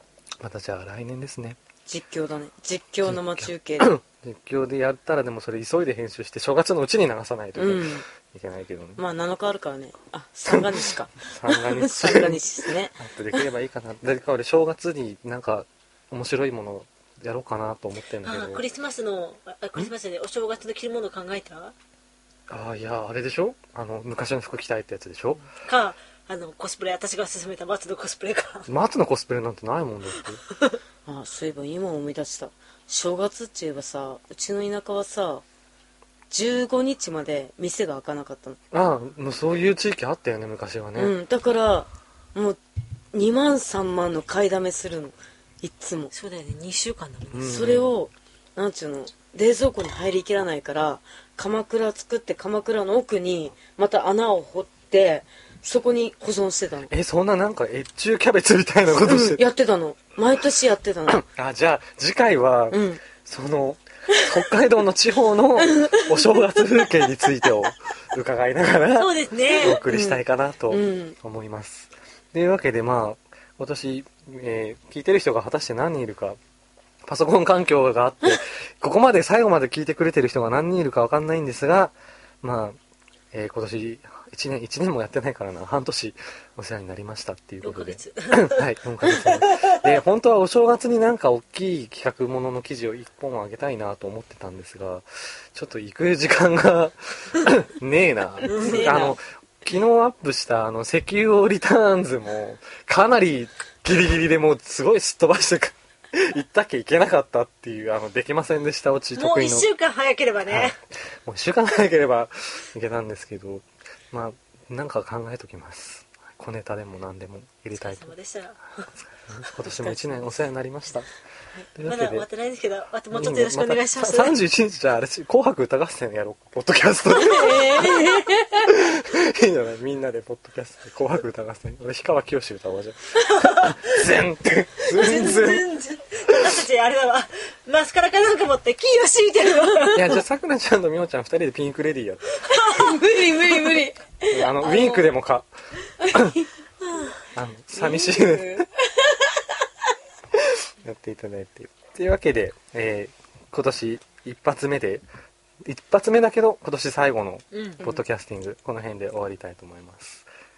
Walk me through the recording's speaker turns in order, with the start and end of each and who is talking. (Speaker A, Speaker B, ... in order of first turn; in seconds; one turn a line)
Speaker A: 0.4-1.6
Speaker B: 1.9-3.9
Speaker A: 3.0-9.0
Speaker B: 7.6-8.1
Speaker B: 9.0-13.0
Speaker A: 10.5-18.6
Speaker C: 18.2-21.8
Speaker A: 22.5-25.4
Speaker C: 25.6-28.7
Speaker A: 28.7-30.4
Speaker B: 31.1-35.4
Speaker B: 36.3-38.6
Speaker A: 38.7-41.1
Speaker B: 41.0-42.6
Speaker B: 43.1-46.1
Speaker C: 46.1-47.5
Speaker A: 47.3-47.9
Speaker B: 47.4-56.9
Speaker A: 56.9-59.4
Speaker B: 59.0-61.2
Speaker A: 61.1-76.4
Speaker B: 62.7-63.0
Speaker B: 65.6-66.3
Speaker C: 69.0-69.9
Speaker B: 69.7-71.2
Speaker A: 77.0-82.8
Speaker A: 83.3-109.7
Speaker C: 87.6-89.9
Speaker C: 98.5-98.9
Speaker B: 98.5-99.2
Speaker C: 109.2-110.8
Speaker A: 110.5-118.1
Speaker C: 117.8-118.9
Speaker A: 119.3-121.1
Speaker B: 119.6-120.3
Speaker A: 121.8-122.3
Speaker C: 121.8-124.4
Speaker A: 123.1-135.7
Speaker B: 127.1-128.8
Speaker C: 133.3-133.9
Speaker C: 134.9-140.1
Speaker A: 139.9-142.2
Speaker C: 142.5-142.9
Speaker B: 142.5-145.1
Speaker A: 144.3-145.5
Speaker B: 146.0-146.5
Speaker A: 146.1-146.4
Speaker A: 147.3-148.7
Speaker B: 147.7-149.5
Speaker A: 150.3-155.1
Speaker A: 155.7-160.3
Speaker C: 157.5-157.8